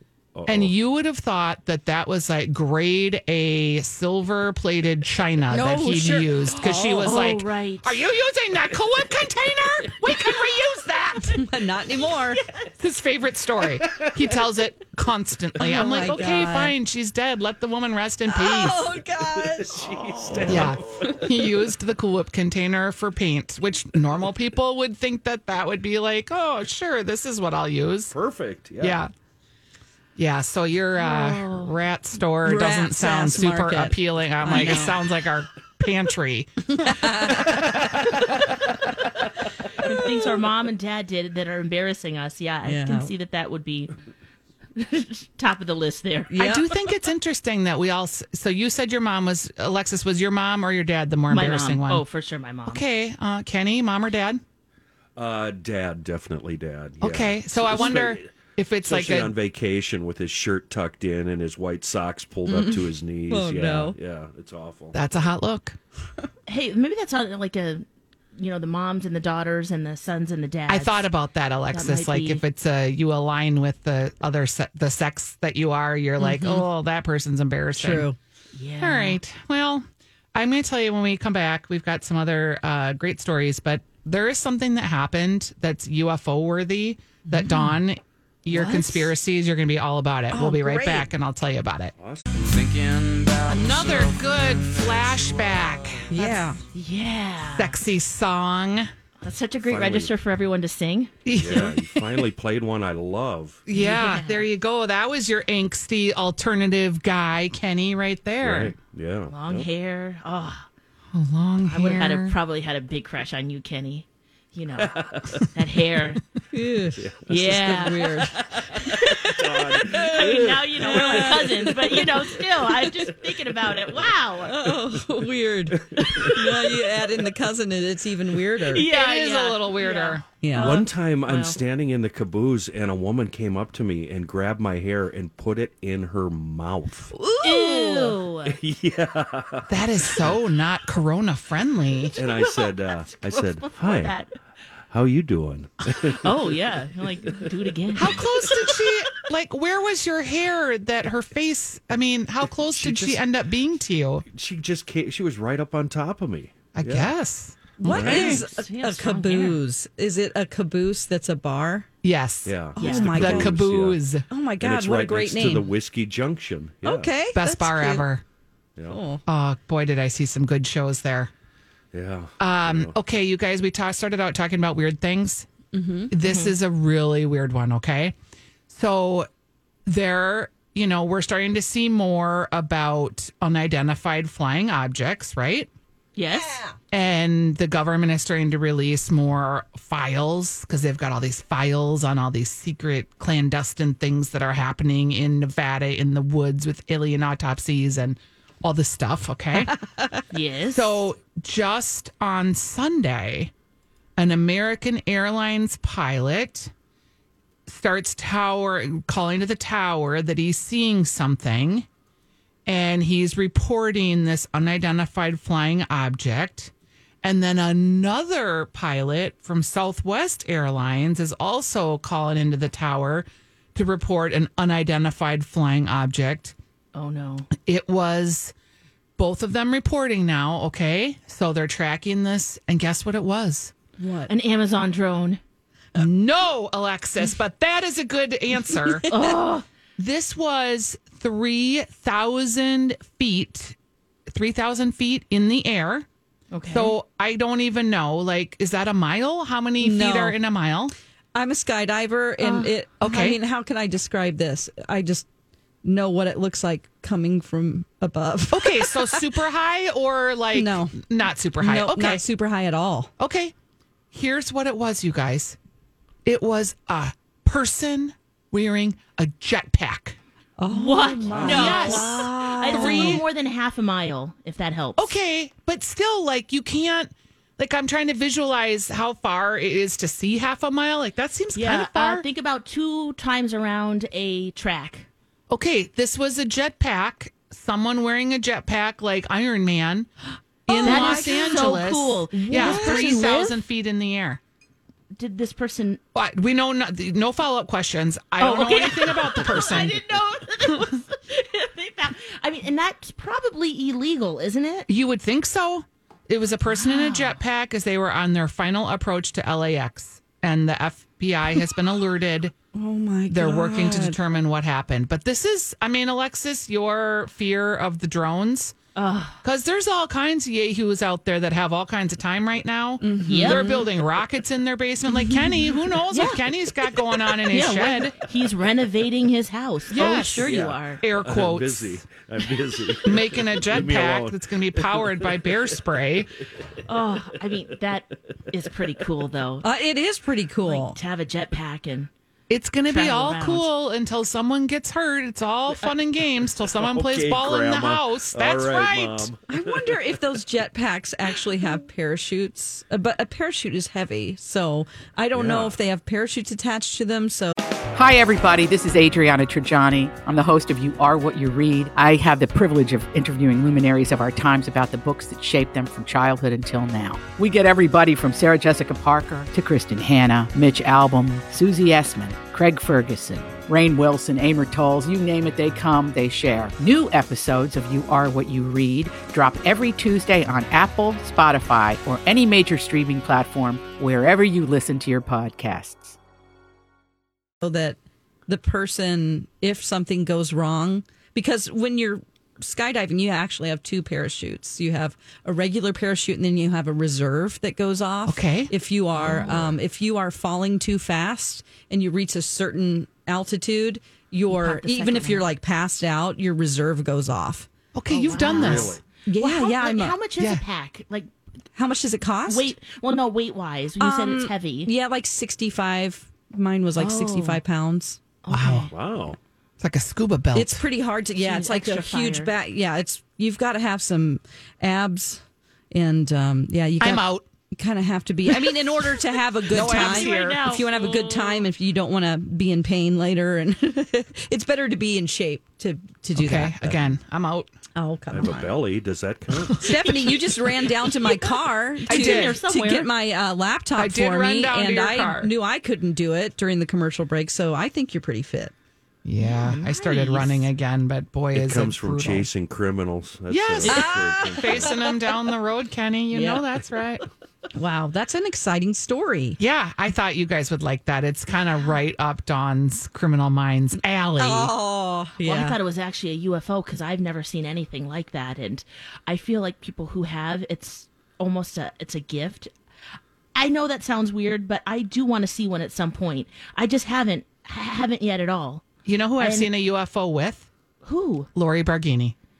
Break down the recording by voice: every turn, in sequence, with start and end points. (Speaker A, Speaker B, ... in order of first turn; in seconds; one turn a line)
Speaker A: 0.3-0.8
Speaker B: 0.5-11.4
Speaker C: 5.5-7.2
Speaker D: 7.0-8.0
Speaker D: 10.0-10.4
Speaker C: 11.3-12.4
Speaker D: 12.0-12.7
Speaker B: 12.8-18.9
Speaker A: 13.8-14.4
Speaker C: 15.6-16.7
Speaker C: 18.3-21.1
Speaker A: 19.2-21.3
Speaker B: 20.5-28.1
Speaker A: 28.1-29.0
Speaker B: 28.8-29.1
Speaker B: 30.2-37.7
Speaker D: 31.0-31.8
Speaker C: 32.4-35.0
Speaker D: 34.5-34.9
Speaker C: 36.7-37.6
Speaker D: 39.8-44.0
Speaker C: 42.6-43.1
Speaker D: 44.8-46.7
Speaker C: 46.3-46.7
Speaker B: 46.4-52.0
Speaker D: 51.3-52.8
Speaker B: 52.7-54.4
Speaker A: 55.2-65.0
Speaker B: 57.0-59.4
Speaker C: 62.5-64.0
Speaker B: 64.9-65.8
Speaker D: 66.5-67.8
Speaker D: 68.4-71.1
Speaker B: 70.7-78.1
Speaker D: 71.7-72.4
Speaker C: 76.2-76.7
Speaker C: 77.8-78.2
Speaker D: 78.5-79.2
Speaker B: 78.8-91.9
Speaker C: 87.3-87.7
Speaker D: 88.5-89.1
Speaker C: 90.3-91.1
Speaker A: 92.0-92.3
Speaker B: 93.5-96.5
Speaker C: 96.1-96.6
Speaker D: 96.7-97.8
Speaker B: 97.6-98.9
Speaker D: 99.2-101.7
Speaker A: 99.6-100.1
Speaker B: 101.2-102.3
Speaker A: 101.3-103.7
Speaker B: 103.7-108.8
Speaker D: 103.7-104.5
Speaker A: 108.4-109.7
Speaker D: 109.3-110.7
Speaker B: 111.1-112.4
Speaker D: 111.7-116.2
Speaker A: 114.8-115.5
Speaker C: 116.5-122.2
Speaker A: 117.0-124.1
Speaker D: 117.3-124.7
Speaker C: 124.5-128.9
Speaker A: 125.7-126.5
Speaker D: 126.0-126.7
Speaker D: 128.7-131.6
Speaker B: 128.9-130.3
Speaker C: 130.4-130.8
Speaker A: 130.6-137.1
Speaker C: 137.1-138.2
Speaker D: 137.4-138.6
Speaker A: 138.4-140.4
Speaker B: 139.7-142.2
Speaker D: 142.1-144.3
Speaker A: 142.2-144.2
Speaker A: 144.9-148.7
Speaker D: 146.2-148.8
Speaker B: 147.9-154.2
Speaker A: 152.7-153.2
Speaker A: 154.3-157.2
Speaker B: 156.7-158.4
Speaker C: 157.8-161.9
Speaker A: 157.8-158.4
Speaker D: 157.8-159.6
Speaker B: 162.0-164.3
Speaker A: 162.4-164.0
Speaker C: 162.8-163.6
Speaker D: 162.8-163.2
Speaker C: 164.3-165.7
Speaker A: 164.6-167.2
Speaker C: 166.8-168.1
Speaker B: 167.3-168.2
Speaker A: 168.8-169.0
Speaker C: 168.9-169.2
Speaker B: 169.3-171.3
Speaker A: 171.9-172.9
Speaker B: 172.4-175.5
Speaker C: 175.7-176.1
Speaker B: 176.1-178.2
Speaker D: 176.2-176.5
Speaker B: 178.7-179.3
Speaker B: 179.9-185.7
Speaker D: 186.2-186.6
Speaker C: 186.3-186.8
Speaker B: 186.9-199.8
Speaker D: 200.3-201.0
Speaker B: 200.7-203.5
Speaker B: 204.2-206.7
Speaker B: 207.7-211.9
Speaker B: 212.7-216.7
Speaker B: 217.2-226.6
Speaker D: 226.9-227.5
Speaker B: 227.5-228.5
Speaker B: 229.2-233.7
Speaker C: 234.0-234.3
Speaker D: 234.3-235.4
Speaker B: 236.0-239.1
Speaker C: 238.7-239.3
Speaker D: 239.1-239.7
Speaker B: 240.0-243.8
Speaker B: 244.3-246.1
Speaker D: 246.5-247.0
Speaker B: 246.7-250.9
Speaker C: 249.8-250.4
Speaker C: 251.3-255.3
Speaker D: 252.4-252.7
Speaker B: 253.0-253.4
Speaker C: 255.8-259.3
Speaker B: 258.5-262.2
Speaker C: 260.5-261.0
Speaker C: 261.6-263.1
Speaker B: 263.2-263.5
Speaker B: 264.1-265.6
Speaker B: 266.2-270.2
Speaker C: 270.6-273.2
Speaker D: 270.7-275.1
Speaker A: 271.3-271.7
Speaker B: 271.4-273.2
Speaker B: 275.0-282.3
Speaker D: 281.6-285.1
Speaker B: 285.5-290.1
Speaker B: 290.7-294.4
Speaker C: 290.7-291.8
Speaker D: 290.8-293.6
Speaker C: 292.4-293.5
Speaker D: 295.1-296.0
Speaker B: 296.1-300.0
Speaker D: 298.4-304.9
Speaker B: 304.9-312.5
Speaker D: 306.7-307.4
Speaker C: 312.7-314.2
Speaker B: 313.3-318.8
Speaker D: 318.9-319.4
Speaker B: 319.4-328.2
Speaker C: 323.0-323.9
Speaker D: 323.2-323.9
Speaker C: 325.3-325.6
Speaker D: 326.1-326.4
Speaker D: 327.4-331.0
Speaker B: 329.9-332.1
Speaker A: 330.4-336.2
Speaker B: 333.1-336.3
Speaker D: 336.9-339.7
Speaker C: 339.6-341.0
Speaker D: 340.6-342.1
Speaker B: 342.5-349.3
Speaker D: 342.9-343.7
Speaker A: 346.6-350.4
Speaker C: 349.5-357.5
Speaker A: 355.3-355.8
Speaker E: 357.9-386.2
Speaker C: 387.6-407.7
Speaker B: 398.3-398.7
Speaker D: 399.2-399.6
Speaker D: 404.5-405.4
Speaker B: 407.9-409.0
Speaker D: 408.1-411.3
Speaker A: 408.5-409.0
Speaker C: 409.3-410.2
Speaker C: 411.8-412.7
Speaker D: 412.5-414.9
Speaker C: 414.0-418.2
Speaker D: 417.0-417.6
Speaker D: 418.4-418.9
Speaker B: 418.5-418.9
Speaker A: 418.9-419.4
Speaker B: 419.8-420.8
Speaker C: 420.5-436.9
Speaker D: 421.4-422.5
Speaker B: 427.0-427.4
Speaker B: 429.7-430.8
Speaker D: 429.7-431.7
Speaker B: 436.4-437.7
Speaker C: 437.9-438.8
Speaker A: 438.3-439.9
Speaker C: 439.8-448.7
Speaker D: 440.0-443.1
Speaker B: 442.1-442.6
Speaker B: 444.0-445.5
Speaker B: 449.2-452.5
Speaker D: 449.4-450.7
Speaker A: 451.5-455.1
Speaker B: 453.5-457.2
Speaker C: 453.8-455.1
Speaker C: 456.3-456.6
Speaker C: 457.7-459.6
Speaker B: 459.6-464.7
Speaker C: 464.4-465.8
Speaker D: 465.4-472.7
Speaker D: 473.6-478.9
Speaker B: 479.1-480.7
Speaker D: 479.4-479.7
Speaker D: 481.0-481.5
Speaker B: 481.6-482.4